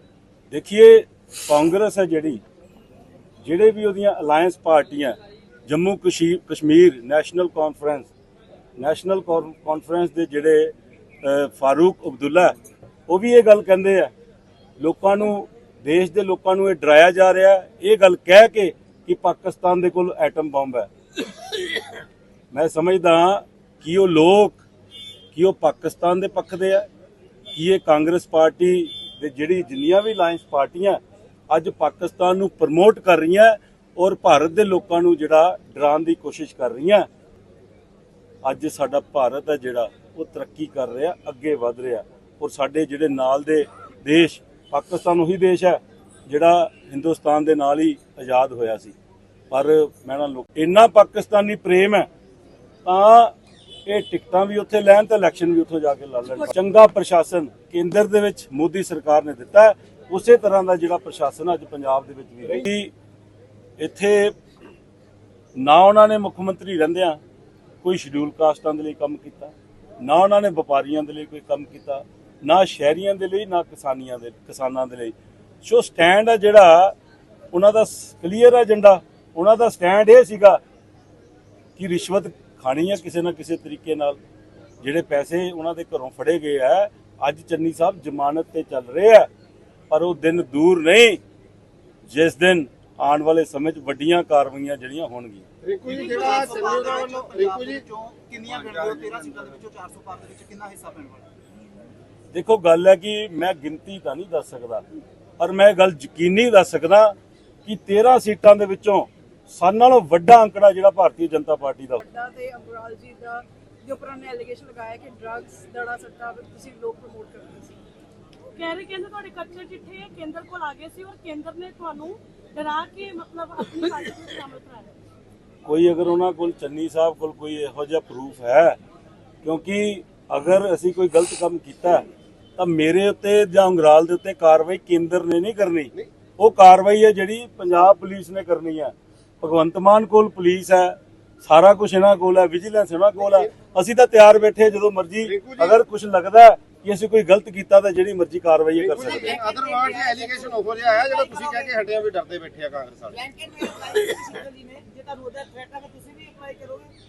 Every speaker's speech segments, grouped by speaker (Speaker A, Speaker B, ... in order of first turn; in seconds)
Speaker A: 0.5-2.4, 3.4-5.2, 5.7-8.1, 8.8-12.5, 13.1-14.1, 14.8-20.9, 22.5-24.6, 25.3-26.9, 27.5-37.1, 38.4-49.0, 49.5-52.1, 52.9-53.3, 53.9-62.9, 63.8-64.3, 65.6-67.2, 67.8-77.0, 77.5-80.6, 81.8-84.2, 84.8-89.3, 89.9-91.2, 92.1-95.5, 102.3-104.8, 105.4-107.1, 107.7-112.0, 125.7-128.8, 129.4-132.0, 132.6-149.4
Speaker B: 95.7-97.8, 98.5-99.1, 148.9-153.2
Speaker C: 95.9-101.2, 149.1-151.7, 153.2-156.9
Speaker D: 112.0-117.8
Speaker E: 118.6-124.9